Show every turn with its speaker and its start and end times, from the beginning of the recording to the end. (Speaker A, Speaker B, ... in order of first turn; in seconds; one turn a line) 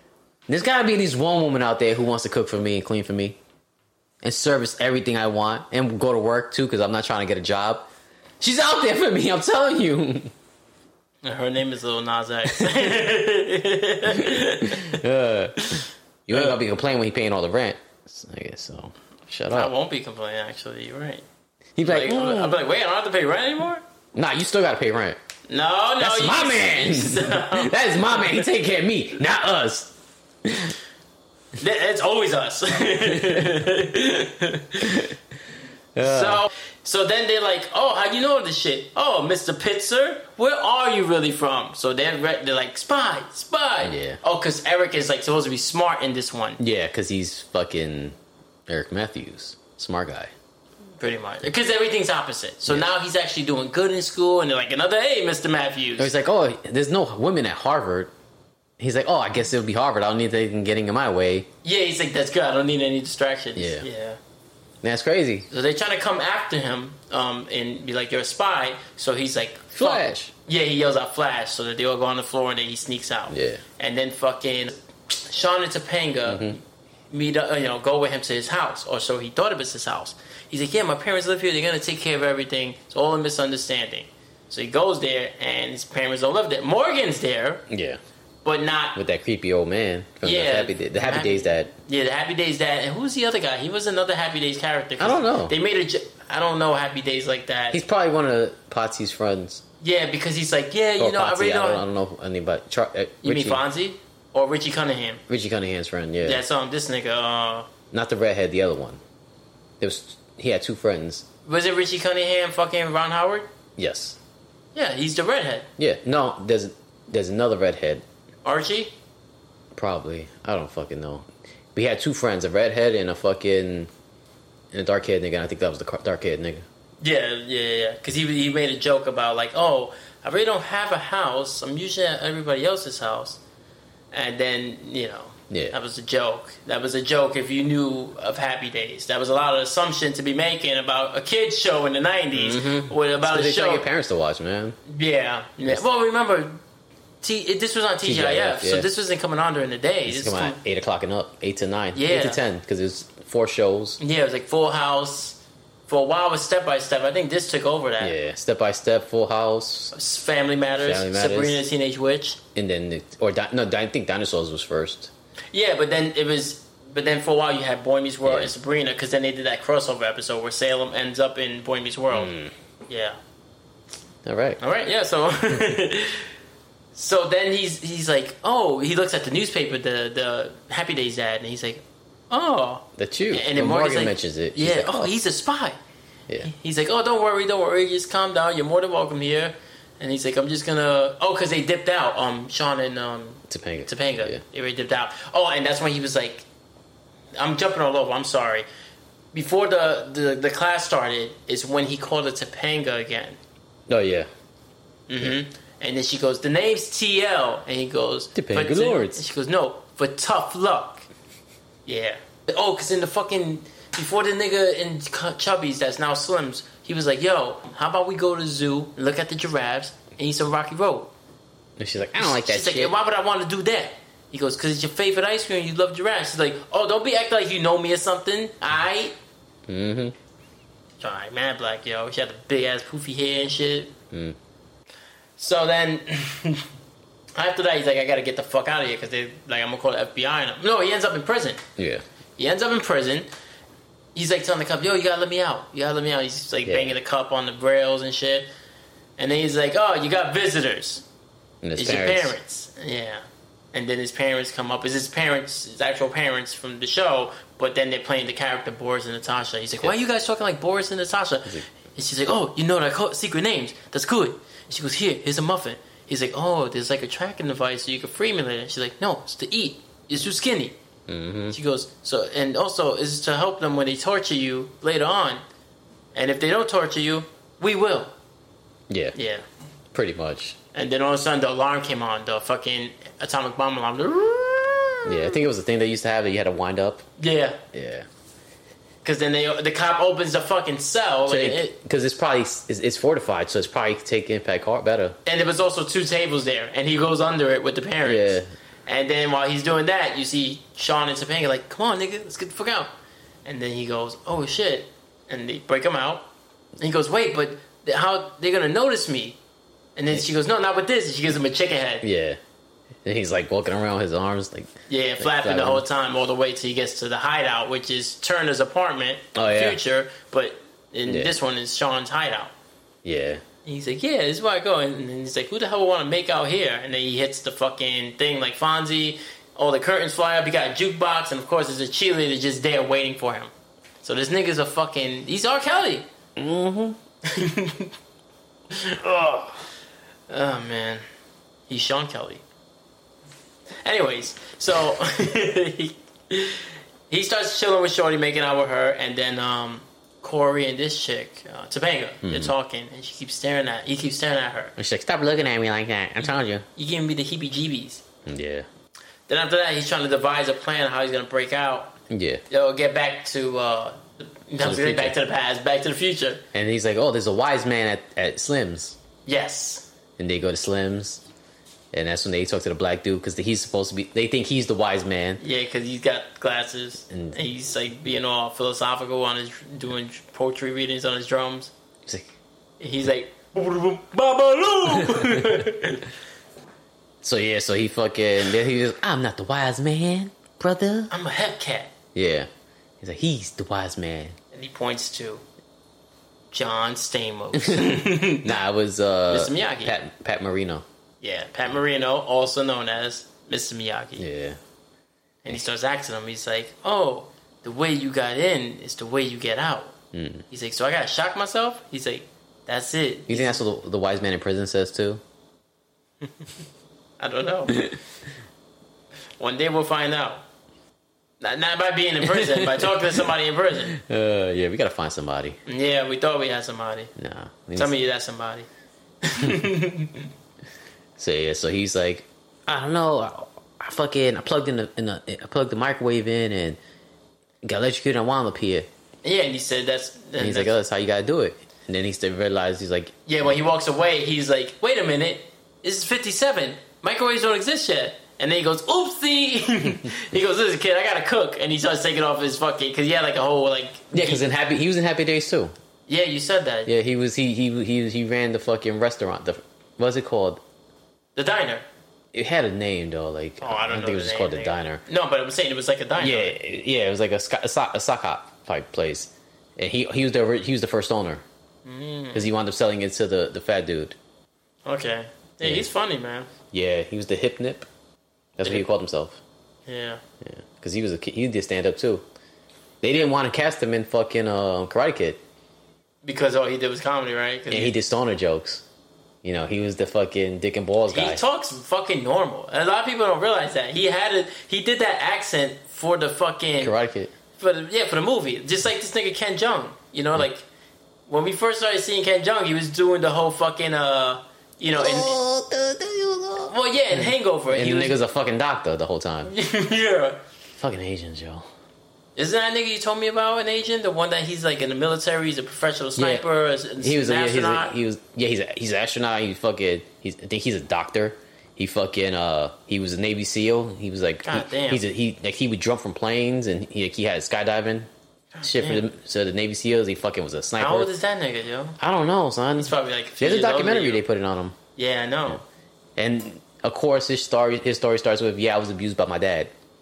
Speaker A: 0.5-3.4
Speaker A: 4.2-7.9
Speaker A: 8.4-10.3
Speaker B: 11.2-15.0
Speaker A: 12.5-12.9
Speaker A: 14.1-19.7
Speaker B: 15.6-16.6
Speaker B: 19.5-21.2
Speaker A: 21.8-22.6
Speaker B: 21.8-23.8
Speaker A: 24.1-25.2
Speaker B: 25.5-28.4
Speaker A: 26.0-29.9
Speaker A: 30.4-30.8
Speaker B: 31.6-35.1
Speaker A: 33.1-33.5
Speaker A: 34.8-35.1
Speaker A: 36.0-36.4
Speaker B: 36.0-46.6
Speaker A: 43.8-44.2
Speaker A: 46.6-48.1
Speaker A: 48.7-50.3
Speaker B: 51.0-56.1
Speaker A: 56.0-58.1
Speaker A: 58.8-61.5
Speaker B: 61.6-64.2
Speaker A: 63.5-63.9
Speaker A: 64.8-65.5
Speaker B: 65.5-87.6
Speaker A: 69.7-70.3
Speaker A: 73.3-73.6
Speaker A: 76.3-76.6
Speaker A: 87.7-88.0
Speaker B: 88.4-89.0
Speaker A: 88.9-91.7
Speaker B: 90.2-97.8
Speaker A: 95.0-95.5
Speaker A: 97.7-99.6
Speaker B: 99.8-101.8
Speaker A: 101.0-103.6
Speaker B: 103.2-105.2
Speaker A: 105.3-106.4
Speaker B: 106.2-107.7
Speaker A: 107.9-109.0
Speaker A: 109.8-111.2
Speaker B: 111.4-113.5
Speaker A: 113.8-114.2
Speaker B: 114.7-115.7
Speaker A: 115.8-118.0
Speaker B: 118.4-118.9
Speaker A: 119.7-123.9
Speaker A: 124.7-126.6
Speaker B: 127.0-133.4
Speaker B: 134.1-143.8
Speaker A: 135.5-135.7
Speaker A: 142.3-144.8
Speaker B: 144.9-146.6
Speaker B: 147.2-150.6
Speaker A: 148.0-148.9
Speaker A: 150.1-154.0
Speaker B: 151.9-152.4
Speaker B: 154.0-158.2
Speaker A: 158.0-159.9
Speaker B: 159.9-162.4
Speaker A: 160.8-161.6
Speaker A: 162.5-165.1
Speaker B: 165.5-172.3
Speaker A: 168.2-168.5
Speaker A: 172.1-172.5
Speaker B: 172.9-173.2
Speaker A: 174.2-174.6
Speaker B: 174.6-176.3
Speaker B: 176.9-185.8
Speaker A: 183.0-185.1
Speaker B: 186.4-196.4
Speaker A: 193.5-194.4
Speaker B: 197.4-198.7
Speaker B: 199.3-203.4
Speaker A: 203.9-204.3
Speaker B: 205.1-211.0
Speaker A: 208.3-209.2
Speaker B: 211.8-221.1
Speaker A: 221.8-222.9
Speaker B: 222.2-229.1
Speaker A: 229.7-230.1
Speaker B: 231.0-233.9
Speaker B: 235.4-236.7
Speaker B: 237.3-241.6
Speaker A: 241.8-242.0
Speaker B: 242.4-243.3
Speaker B: 244.1-248.5
Speaker A: 246.6-246.9
Speaker B: 249.2-251.0
Speaker A: 251.6-252.3
Speaker B: 251.8-270.8
Speaker A: 271.1-271.6
Speaker B: 271.5-275.4
Speaker B: 276.1-278.1
Speaker A: 278.9-279.1
Speaker B: 279.1-279.4
Speaker A: 279.9-280.6
Speaker B: 280.7-285.4
Speaker A: 285.0-287.0
Speaker B: 287.2-287.6
Speaker A: 287.7-288.1
Speaker B: 289.0-291.8
Speaker A: 291.3-295.2
Speaker B: 295.2-302.9
Speaker A: 298.0-298.5
Speaker B: 303.4-306.2
Speaker B: 306.8-309.4
Speaker B: 309.9-312.1
Speaker A: 312.0-312.4
Speaker A: 313.0-315.9
Speaker B: 314.9-322.5
Speaker A: 319.3-319.8
Speaker A: 321.1-321.3
Speaker A: 323.0-323.4
Speaker B: 323.6-333.5
Speaker B: 334.0-336.0
Speaker A: 336.4-337.0
Speaker B: 337.2-337.9
Speaker B: 338.7-339.6
Speaker B: 340.3-341.0
Speaker B: 341.7-342.4
Speaker B: 343.8-354.7
Speaker A: 352.2-352.5
Speaker A: 354.8-356.6
Speaker B: 356.8-358.0
Speaker A: 358.2-358.7
Speaker B: 359.3-362.0
Speaker A: 362.1-362.4
Speaker B: 362.5-366.4
Speaker A: 364.6-365.1
Speaker A: 366.5-369.0
Speaker B: 369.2-369.9
Speaker A: 370.2-371.2
Speaker A: 371.9-375.4
Speaker B: 375.4-381.7
Speaker A: 377.1-377.4
Speaker B: 382.8-386.1
Speaker A: 385.0-385.4
Speaker A: 387.2-391.1
Speaker B: 391.1-391.9
Speaker A: 392.1-392.5
Speaker A: 393.0-394.4
Speaker B: 394.5-395.4
Speaker B: 396.5-398.5
Speaker A: 397.5-400.8
Speaker B: 399.3-399.9
Speaker B: 401.2-404.3
Speaker A: 404.2-404.6
Speaker B: 405.4-409.9
Speaker A: 410.1-410.4
Speaker B: 410.5-413.6
Speaker A: 413.3-415.2
Speaker B: 417.2-417.9
Speaker B: 419.4-420.4
Speaker B: 421.4-423.9
Speaker A: 422.2-423.2
Speaker A: 423.9-425.6
Speaker B: 425.6-427.1
Speaker A: 427.2-427.9
Speaker B: 427.8-428.7
Speaker B: 429.2-430.3
Speaker A: 431.2-436.8
Speaker A: 437.6-438.9
Speaker B: 439.2-440.8
Speaker A: 440.4-443.1
Speaker B: 443.2-454.4
Speaker A: 454.1-455.7
Speaker B: 456.1-456.9
Speaker A: 456.9-460.6
Speaker B: 461.4-461.9
Speaker A: 462.3-465.0
Speaker B: 463.6-466.6
Speaker A: 466.2-471.4
Speaker B: 471.8-472.5
Speaker A: 472.3-474.1
Speaker B: 474.9-476.5
Speaker A: 476.7-477.9
Speaker A: 478.6-479.4
Speaker B: 479.9-480.2
Speaker A: 480.4-482.2
Speaker A: 483.0-485.4
Speaker B: 486.2-487.9
Speaker A: 487.7-488.8
Speaker A: 489.4-491.4
Speaker B: 491.1-496.9
Speaker A: 496.8-497.3
Speaker B: 497.6-500.6
Speaker B: 501.3-505.4
Speaker A: 505.0-509.5
Speaker B: 506.6-508.2
Speaker B: 509.4-510.4
Speaker A: 510.7-511.7
Speaker B: 512.4-518.0
Speaker A: 516.1-516.4
Speaker A: 517.0-528.1
Speaker B: 524.4-525.0
Speaker B: 528.5-529.0
Speaker A: 528.6-531.1
Speaker B: 530.8-532.0
Speaker A: 532.0-534.8
Speaker B: 532.8-534.2
Speaker B: 535.0-535.6
Speaker A: 536.2-539.7